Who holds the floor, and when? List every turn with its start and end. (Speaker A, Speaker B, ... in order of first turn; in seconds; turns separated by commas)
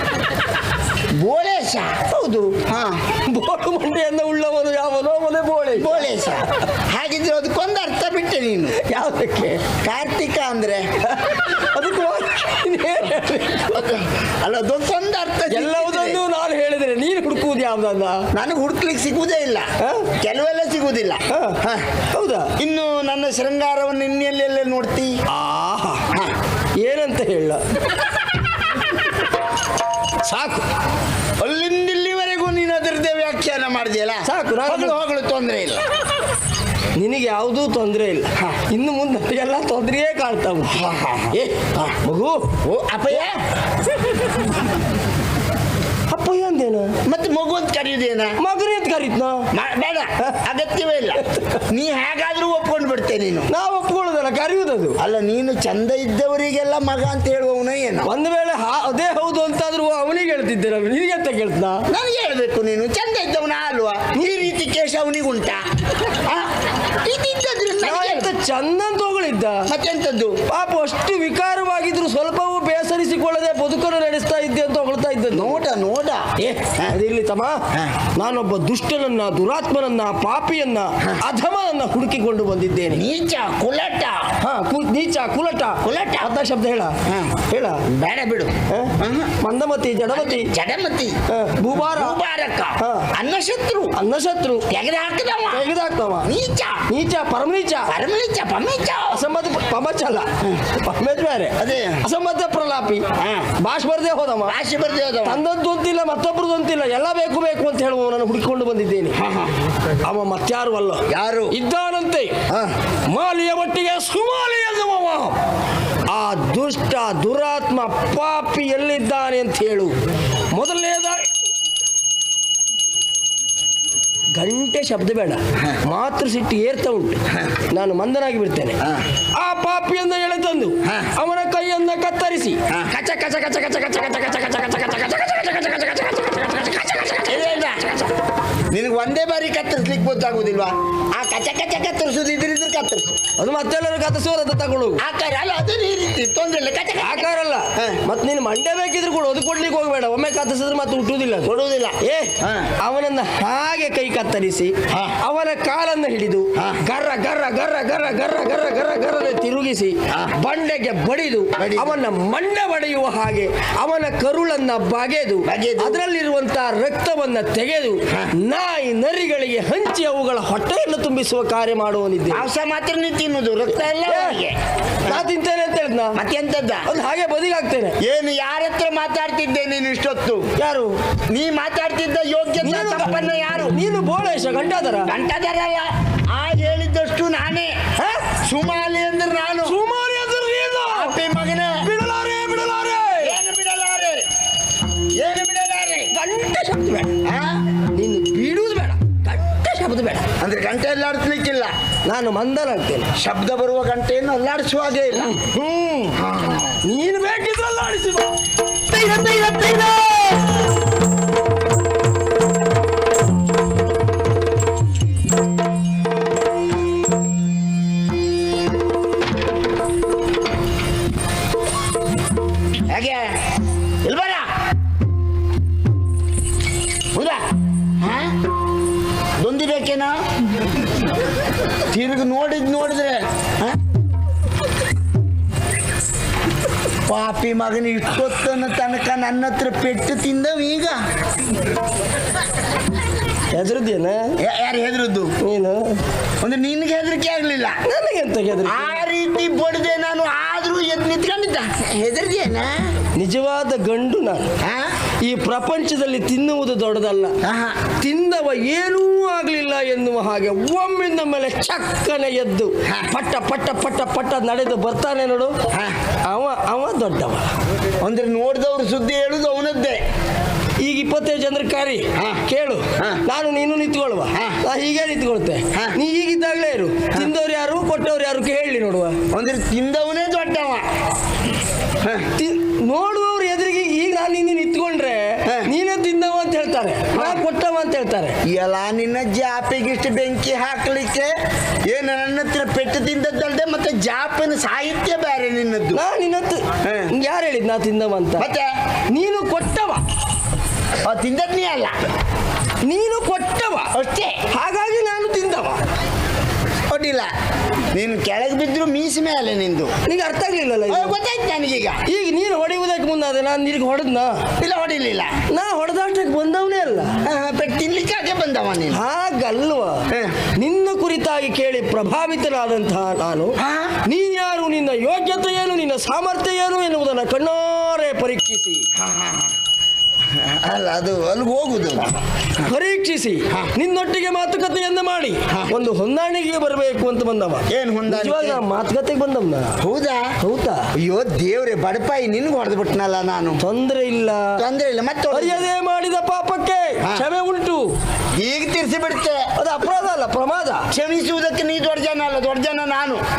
Speaker A: 1.1-2.0, Speaker B: 2.1-2.5, Speaker A: 2.6-3.0, Speaker B: 3.1-6.0, Speaker A: 5.7-8.8, Speaker B: 8.7-9.6, Speaker A: 9.8-10.8, Speaker B: 11.1-13.9, Speaker A: 13.7-16.2, Speaker B: 15.5-18.2, Speaker A: 18.3-19.6, Speaker B: 19.8-20.1, Speaker A: 20.2-21.9, Speaker B: 21.3-21.6, Speaker B: 22.1-22.5, Speaker A: 22.6-25.1, Speaker B: 25.3-26.0, Speaker B: 26.8-27.6, Speaker B: 30.2-30.7, Speaker A: 31.4-35.8, Speaker B: 34.2-35.0, Speaker B: 37.0-42.5, Speaker A: 40.7-42.0, Speaker A: 42.6-43.4, Speaker B: 46.1-46.9, Speaker A: 47.0-48.3, Speaker B: 48.4-49.5, Speaker A: 49.5-53.5, Speaker B: 51.2-51.6, Speaker B: 53.5-55.0, Speaker A: 55.0-58.1, Speaker B: 58.0-61.8, Speaker A: 61.9-68.3, Speaker B: 67.8-69.7, Speaker A: 69.7-70.4, Speaker B: 70.5-75.6, Speaker A: 75.3-76.9, Speaker B: 76.4-83.1, Speaker A: 82.9-84.3, Speaker B: 84.4-87.0, Speaker A: 85.8-86.3, Speaker A: 87.0-87.3, Speaker B: 87.5-87.8, Speaker A: 87.9-89.3, Speaker B: 88.7-90.5, Speaker A: 90.1-91.2, Speaker B: 91.3-92.2, Speaker A: 91.7-94.0, Speaker B: 92.8-93.1, Speaker B: 93.9-94.7, Speaker A: 94.7-95.6, Speaker B: 95.5-96.3, Speaker A: 96.2-96.8, Speaker B: 96.9-97.9, Speaker A: 97.9-99.2, Speaker B: 99.1-103.0, Speaker A: 101.6-102.0, Speaker A: 103.2-103.5, Speaker B: 103.6-104.6, Speaker A: 104.5-105.4, Speaker B: 105.2-109.2, Speaker A: 109.1-109.6, Speaker B: 110.0-112.4, Speaker A: 111.1-111.5, Speaker B: 113.1-115.4, Speaker B: 116.1-120.0, Speaker B: 120.5-121.3, Speaker B: 124.4-128.8, Speaker A: 125.6-125.8, Speaker A: 127.3-127.6, Speaker B: 129.3-138.0, Speaker A: 130.8-131.1, Speaker A: 137.3-138.1, Speaker A: 138.7-143.2, Speaker B: 143.4-145.0, Speaker A: 145.0-148.0, Speaker B: 147.0-172.5, Speaker A: 151.4-152.7, Speaker A: 154.9-155.2, Speaker A: 156.6-156.8, Speaker A: 160.1-160.3, Speaker A: 161.6-162.0, Speaker A: 165.4-166.0, Speaker A: 172.3-175.2, Speaker B: 174.0-174.4, Speaker B: 175.1-176.2, Speaker A: 176.1-176.9, Speaker B: 176.8-178.0, Speaker A: 178.0-180.4, Speaker B: 180.6-180.9, Speaker A: 181.3-183.8, Speaker B: 182.6-185.1, Speaker A: 185.1-187.7, Speaker B: 188.0-188.3, Speaker A: 188.4-189.8, Speaker B: 189.6-191.2, Speaker A: 190.8-191.8, Speaker B: 191.8-193.4, Speaker A: 193.2-194.2, Speaker A: 195.2-196.1, Speaker B: 196.1-197.2, Speaker A: 197.2-197.6, Speaker B: 197.9-200.3, Speaker A: 200.4-201.7, Speaker B: 202.1-203.1, Speaker A: 203.2-205.3, Speaker B: 205.1-206.2, Speaker A: 206.2-206.8, Speaker B: 206.8-208.3, Speaker B: 208.9-210.5, Speaker A: 222.9-223.3, Speaker A: 224.0-224.5, Speaker A: 227.1-227.4, Speaker A: 228.0-228.3, Speaker A: 229.4-230.2, Speaker A: 231.9-233.8, Speaker A: 237.1-241.0, Speaker B: 243.5-244.3, Speaker A: 244.4-245.3, Speaker B: 245.4-246.0, Speaker A: 246.4-247.8, Speaker B: 247.8-248.9, Speaker A: 248.7-252.9, Speaker B: 253.1-254.5, Speaker A: 254.6-254.9, Speaker B: 255.2-257.4, Speaker A: 257.4-257.8, Speaker B: 258.0-265.6, Speaker A: 265.7-266.0, Speaker B: 266.3-267.5, Speaker A: 268.0-270.0, Speaker B: 270.8-279.2, Speaker A: 272.1-272.4, Speaker A: 279.3-280.8, Speaker A: 282.0-282.3, Speaker B: 282.4-288.4, Speaker A: 287.1-287.4, Speaker A: 288.4-291.3, Speaker A: 291.9-296.0, Speaker B: 295.9-298.5, Speaker A: 296.8-297.1, Speaker A: 298.4-298.7, Speaker B: 299.1-300.0, Speaker A: 301.0-301.9, Speaker B: 302.8-303.9, Speaker A: 303.9-304.4, Speaker B: 304.5-305.8, Speaker A: 306.9-307.3, Speaker A: 307.9-309.9, Speaker B: 310.0-311.1, Speaker A: 310.9-312.0, Speaker B: 312.1-314.4, Speaker A: 314.6-315.3, Speaker B: 315.5-317.1, Speaker A: 317.2-319.0, Speaker B: 318.9-320.0, Speaker A: 320.1-320.4, Speaker B: 320.5-328.9, Speaker A: 323.6-324.0, Speaker A: 328.9-329.5, Speaker A: 330.3-332.7, Speaker B: 332.6-339.8, Speaker A: 337.7-338.6, Speaker A: 339.8-340.2, Speaker B: 340.4-340.9, Speaker A: 341.0-343.6, Speaker B: 343.6-344.5, Speaker A: 344.6-345.7, Speaker B: 345.3-347.9, Speaker A: 348.4-349.5, Speaker B: 349.6-350.9, Speaker A: 350.9-353.2